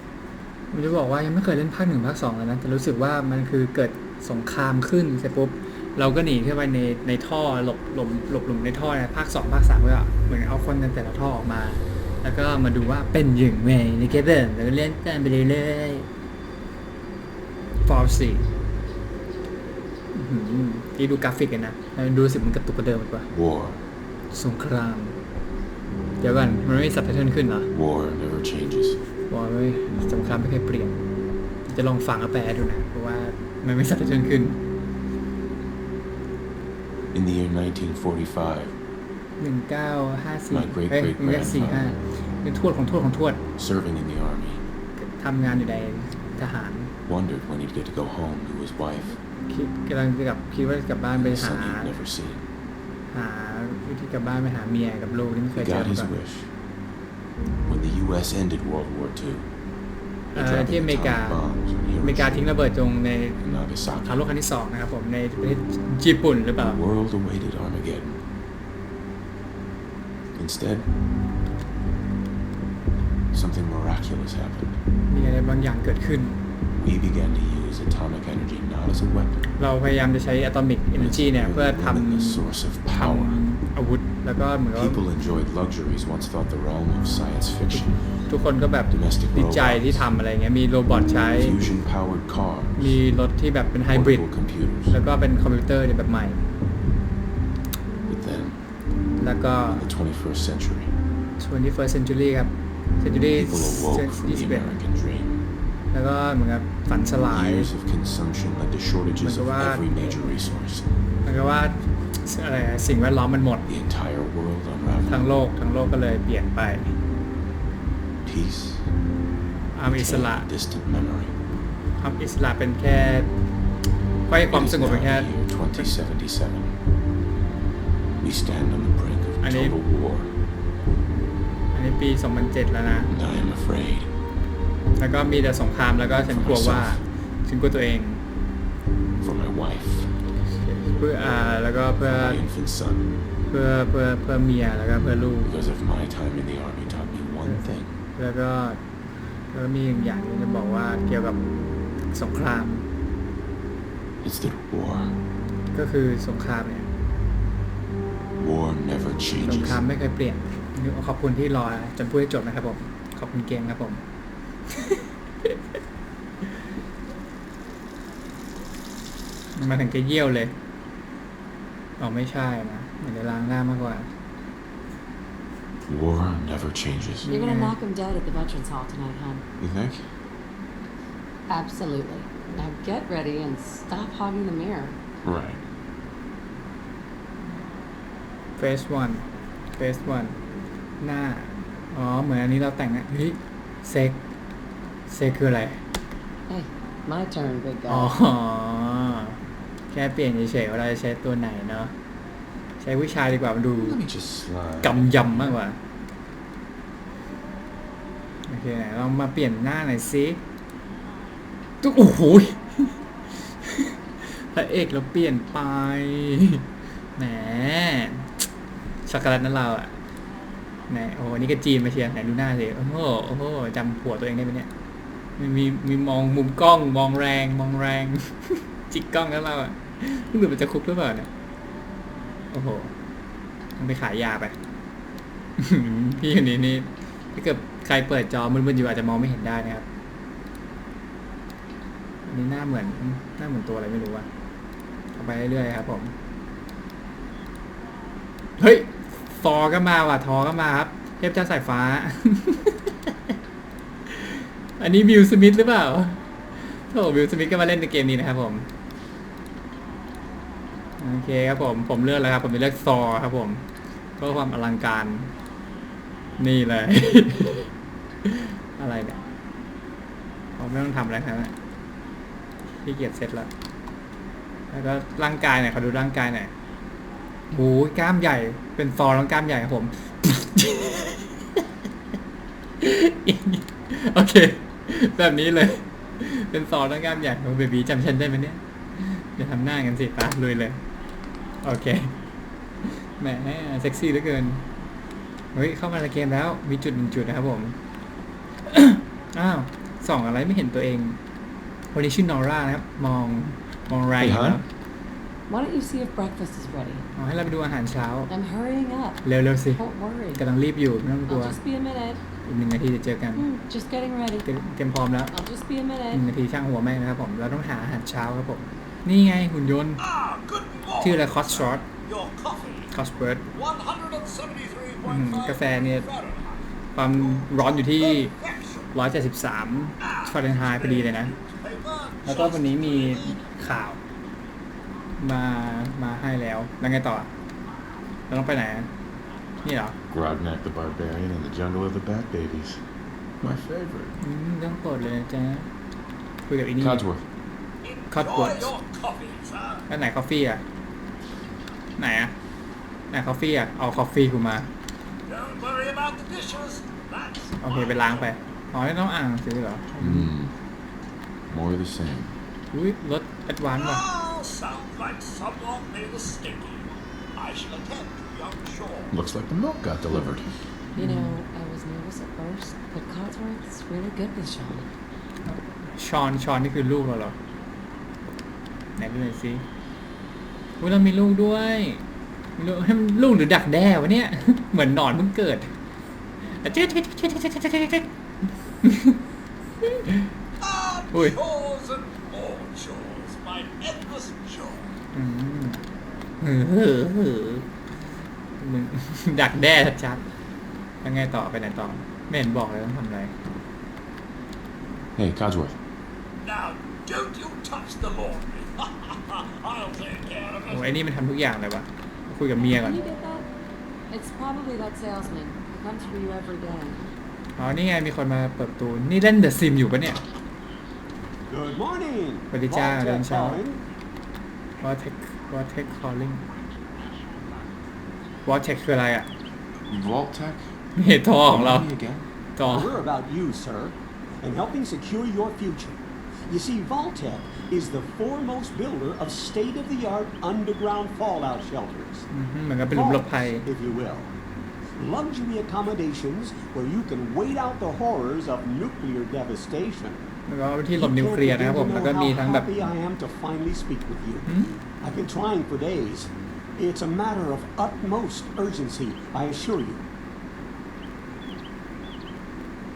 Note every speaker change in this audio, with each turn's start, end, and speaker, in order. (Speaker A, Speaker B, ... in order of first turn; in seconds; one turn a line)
Speaker A: 0.7-16.1
Speaker A: 17.9-18.4
Speaker A: 20.1-23.3
Speaker B: 23.3-23.8
Speaker A: 24.3-25.2
Speaker A: 26.2-27.7
Speaker B: 27.7-29.0
Speaker A: 29.3-31.0
Speaker A: 31.7-34.6
Speaker B: 37.1-38.8
Speaker A: 39.4-43.4
Speaker B: 40.5-42.0
Speaker B: 43.6-44.7
Speaker A: 45.0-46.9
Speaker B: 47.1-49.2
Speaker A: 49.5-52.0
Speaker B: 51.1-52.5
Speaker A: 53.1-56.1
Speaker B: 55.5-56.5
Speaker B: 57.7-59.5
Speaker A: 60.3-61.5
Speaker B: 60.3-62.5
Speaker A: 62.0-63.4
Speaker B: 63.4-64.3
Speaker A: 64.0-66.8
Speaker B: 66.6-68.2
Speaker B: 70.3-70.9
Speaker B: 73.3-74.8
Speaker A: 75.1-76.4
Speaker B: 76.7-79.4
Speaker A: 79.6-85.0
Speaker B: 80.9-83.4
Speaker B: 84.7-88.1
Speaker A: 87.7-91.6
Speaker B: 88.9-90.1
Speaker B: 91.3-93.0
Speaker A: 92.8-96.4
Speaker B: 93.8-95.0
Speaker B: 98.1-98.6
Speaker A: 99.2-99.9
Speaker B: 99.7-100.9
Speaker A: 101.4-104.7
Speaker B: 103.3-105.4
Speaker A: 105.9-107.7
Speaker B: 107.3-110.9
Speaker A: 109.2-109.9
Speaker A: 111.2-113.7
Speaker B: 113.7-115.3
Speaker A: 115.1-117.0
Speaker B: 118.2-118.9
Speaker A: 119.8-120.5
Speaker B: 119.8-121.4
Speaker A: 122.0-123.3
Speaker A: 124.3-125.9
Speaker B: 124.5-126.8
Speaker B: 128.2-130.3
Speaker A: 129.4-129.8
Speaker A: 131.7-133.1
Speaker B: 133.1-134.1
Speaker A: 135.0-138.2
Speaker B: 136.3-137.0
Speaker B: 139.2-140.2
Speaker A: 140.6-142.4
Speaker B: 142.0-143.2
Speaker A: 143.5-145.5
Speaker B: 145.4-148.0
Speaker A: 147.4-148.8
Speaker A: 149.5-151.4
Speaker A: 152.1-152.8
Speaker B: 154.2-155.2
Speaker A: 155.7-156.9
Speaker B: 158.4-159.8
Speaker A: 159.4-164.0
Speaker A: 169.6-170.5
Speaker A: 172.0-174.1
Speaker B: 175.8-177.3
Speaker A: 177.2-177.8
Speaker C: 177.3-179.4
Speaker B: 179.6-180.1
Speaker C: 181.5-185.0
Speaker B: 185.2-185.6
Speaker A: 188.6-189.2
Speaker A: 189.8-190.4
Speaker A: 191.0-194.2
Speaker A: 195.1-195.8
Speaker C: 196.5-198.2
Speaker A: 197.9-199.4
Speaker A: 199.9-201.9
Speaker A: 202.8-204.0
Speaker B: 203.7-205.6
Speaker A: 204.8-205.8
Speaker A: 208.5-210.4
Speaker A: 211.8-212.9
Speaker A: 213.7-216.6
Speaker A: 217.2-218.3
Speaker A: 219.1-220.0
Speaker A: 220.9-224.7
Speaker A: 225.4-231.3
Speaker A: 232.5-232.9
Speaker A: 233.8-234.6
Speaker A: 235.6-239.8
Speaker A: 242.3-244.3
Speaker A: 245.2-246.1
Speaker A: 248.6-253.0
Speaker A: 254.1-258.6
Speaker A: 261.0-263.6
Speaker A: 264.2-265.3
Speaker A: 266.4-267.7
Speaker A: 268.2-269.2
Speaker A: 270.6-271.5
Speaker A: 272.8-273.5
Speaker A: 274.7-276.5
Speaker A: 277.5-281.4
Speaker A: 282.8-290.8
Speaker A: 291.6-292.1
Speaker A: 293.0-294.6
Speaker A: 295.5-297.8
Speaker A: 298.7-301.2
Speaker A: 301.9-304.6
Speaker B: 304.2-304.6
Speaker C: 305.5-307.1
Speaker A: 307.2-308.3
Speaker C: 308.3-310.4
Speaker A: 309.2-309.8
Speaker A: 310.3-311.6
Speaker C: 311.3-312.2
Speaker A: 312.4-313.5
Speaker C: 313.4-314.5
Speaker A: 314.4-315.3
Speaker C: 315.3-316.3
Speaker A: 316.1-320.0
Speaker D: 320.0-322.9
Speaker A: 321.0-321.9
Speaker A: 322.9-323.4
Speaker D: 323.5-326.6
Speaker A: 325.0-326.1
Speaker A: 327.0-328.3
Speaker D: 327.3-328.9
Speaker A: 328.9-331.4
Speaker D: 330.0-333.4
Speaker A: 332.2-334.0
Speaker A: 335.2-337.3
Speaker A: 338.3-338.9
Speaker A: 339.6-340.0
Speaker B: 340.1-342.8
Speaker B: 343.4-344.1
Speaker A: 344.2-345.7
Speaker A: 346.5-347.1
Speaker B: 346.8-347.2
Speaker D: 347.8-349.8
Speaker A: 348.1-348.8
Speaker A: 349.9-350.6
Speaker A: 352.0-352.3
Speaker A: 353.1-354.7
Speaker D: 355.3-358.3
Speaker A: 357.6-360.3
Speaker B: 360.0-360.6
Speaker B: 361.5-362.4
Speaker A: 362.7-364.1
Speaker D: 363.8-369.1
Speaker B: 369.1-370.5
Speaker A: 371.0-371.4
Speaker C: 371.0-374.9
Speaker A: 375.4-377.4
Speaker A: 379.0-379.6
Speaker A: 380.8-382.0
Speaker A: 382.6-385.7
Speaker A: 386.5-388.1
Speaker A: 388.8-389.2
Speaker A: 390.1-390.3
Speaker D: 390.6-394.9
Speaker A: 391.1-391.4
Speaker A: 395.1-395.8
Speaker A: 396.4-397.7
Speaker A: 398.6-400.3
Speaker A: 401.0-403.3
Speaker B: 405.2-405.8
Speaker D: 406.4-410.9
Speaker A: 410.7-413.0
Speaker C: 412.6-413.5
Speaker C: 414.1-417.1
Speaker A: 417.6-420.2
Speaker E: 421.5-423.8
Speaker A: 422.5-423.6
Speaker A: 424.8-426.4
Speaker A: 428.4-429.3
Speaker B: 429.9-430.7
Speaker A: 430.9-431.9
Speaker B: 431.4-432.3
Speaker A: 432.6-432.9
Speaker E: 432.6-442.3
Speaker A: 442.3-443.7
Speaker E: 442.9-444.3
Speaker E: 445.0-450.2
Speaker A: 450.5-452.7
Speaker E: 450.9-460.0
Speaker A: 454.5-454.8